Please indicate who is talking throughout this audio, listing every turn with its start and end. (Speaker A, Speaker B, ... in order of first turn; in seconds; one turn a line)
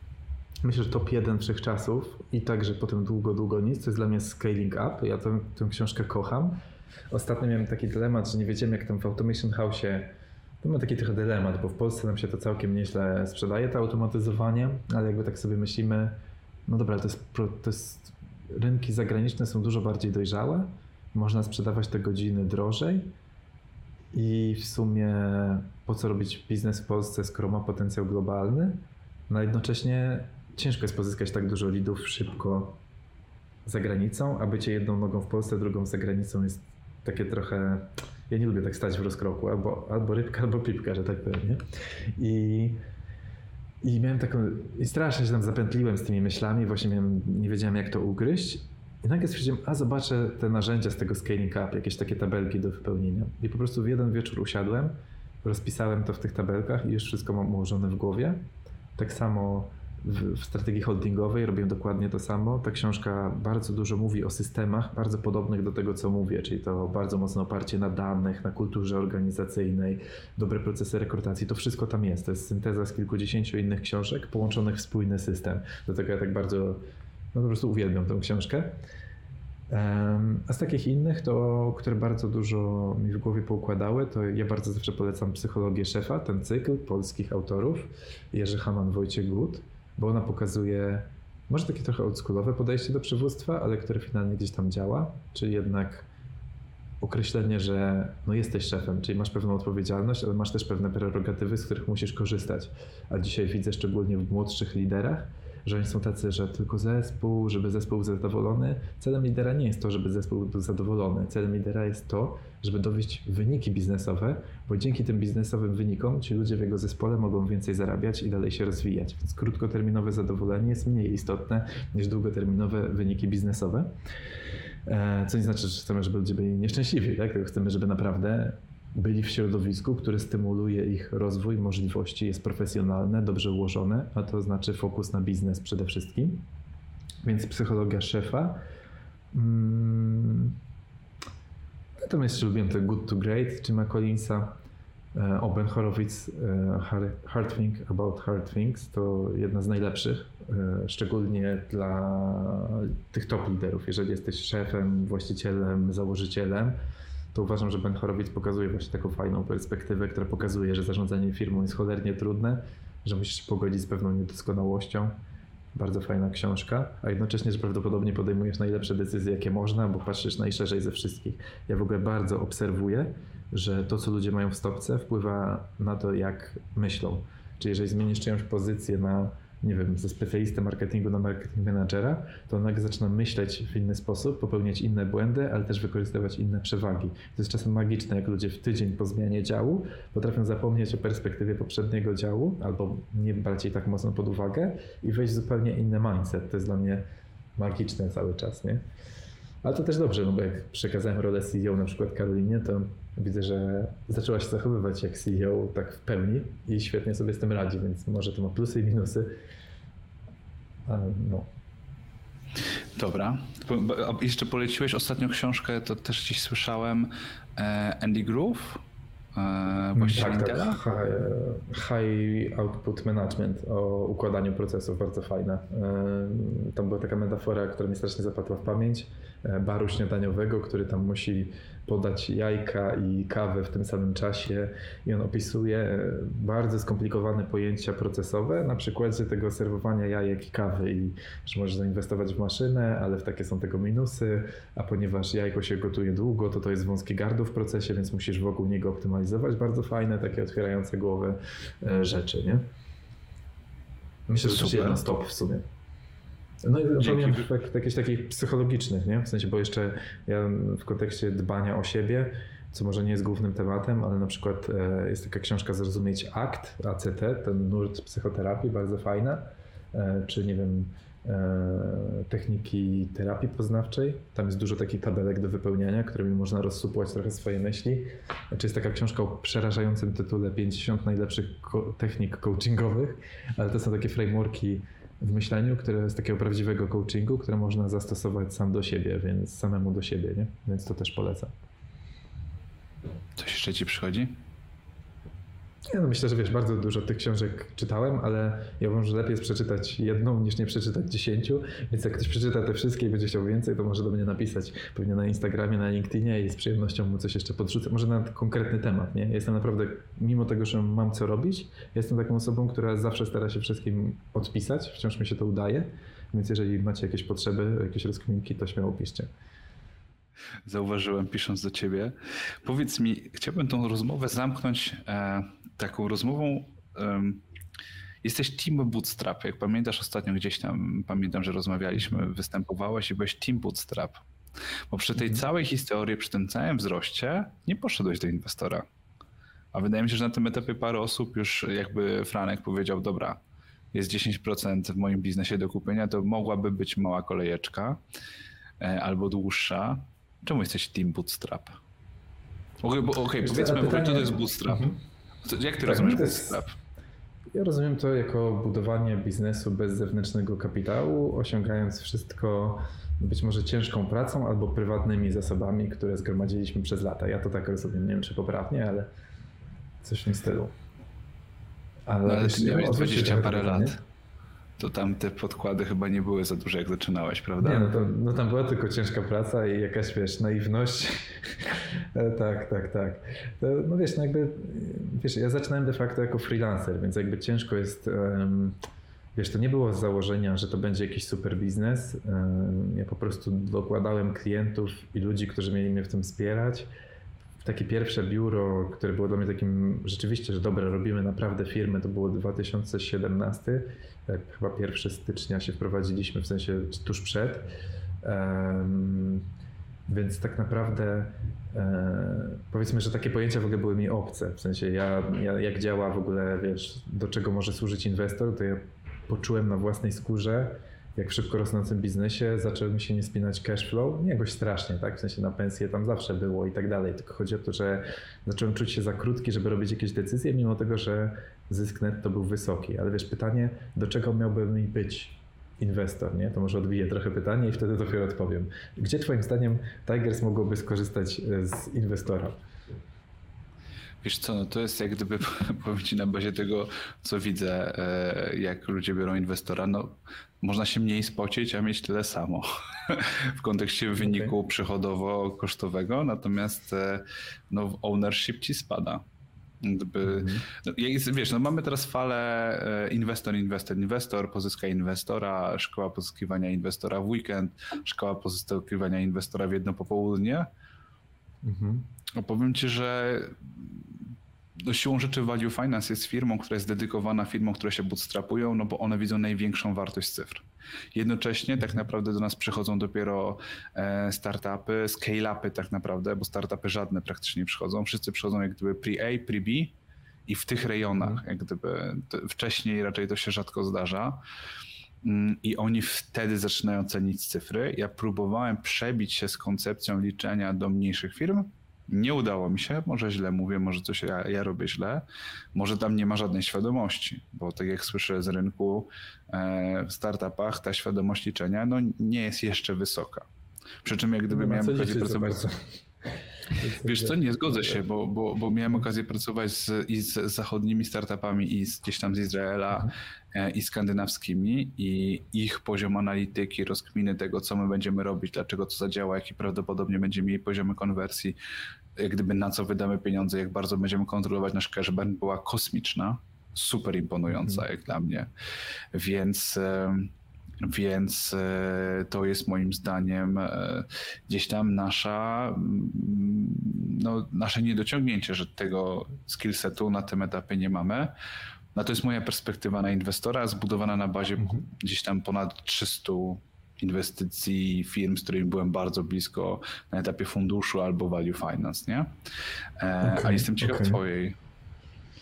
Speaker A: 0.6-6.6
Speaker A: 7.1-10.1
Speaker A: 10.6-23.1
Speaker A: 24.1-32.8
Speaker A: 33.6-41.6
Speaker A: 42.1-42.8
Speaker A: 43.8-58.4
Speaker A: 59.0-76.8
Speaker A: 77.3-78.8
Speaker A: 79.7-96.1
Speaker A: 97.0-123.9
Speaker A: 124.8-136.4
Speaker A: 137.2-138.6
Speaker A: 139.3-140.6
Speaker A: 142.0-144.6
Speaker A: 145.1-156.8
Speaker A: 157.3-165.1
Speaker A: 165.7-197.0
Speaker A: 197.6-198.8
Speaker A: 199.6-209.3
Speaker A: 210.9-211.5
Speaker B: 212.9-218.8
Speaker B: 219.3-220.8
Speaker A: 219.9-252.6
Speaker A: 254.3-255.6
Speaker B: 254.4-255.0
Speaker A: 256.6-291.5
Speaker B: 257.0-257.4
Speaker B: 293.4-294.4
Speaker A: 295.9-319.3
Speaker B: 320.6-327.4
Speaker B: 328.2-334.2
Speaker B: 334.9-338.9
Speaker A: 335.2-335.4
Speaker B: 339.7-343.4
Speaker B: 343.9-348.0
Speaker B: 348.8-351.8
Speaker B: 352.8-356.8
Speaker A: 353.4-355.0
Speaker A: 355.8-356.6
Speaker A: 357.5-369.1
Speaker A: 370.0-370.7
Speaker A: 372.1-373.9
Speaker B: 372.2-374.0
Speaker B: 374.8-378.1
Speaker A: 377.6-388.8
Speaker A: 389.3-396.9
Speaker A: 397.6-407.7
Speaker A: 408.2-409.4
Speaker A: 410.1-442.6
Speaker B: 444.2-459.2
Speaker A: 454.2-454.6
Speaker B: 459.8-470.7
Speaker A: 460.2-460.6
Speaker A: 471.6-472.1
Speaker B: 472.3-474.1
Speaker B: 474.8-489.9
Speaker A: 481.8-482.0
Speaker B: 490.5-494.4
Speaker B: 495.2-513.5
Speaker B: 514.0-515.7
Speaker A: 514.5-515.9
Speaker A: 516.7-518.0
Speaker B: 517.0-531.6
Speaker B: 532.1-538.5
Speaker A: 537.5-537.8
Speaker B: 539.1-540.3
Speaker B: 540.8-551.3
Speaker B: 551.9-562.3
Speaker B: 563.0-564.6
Speaker A: 563.2-564.2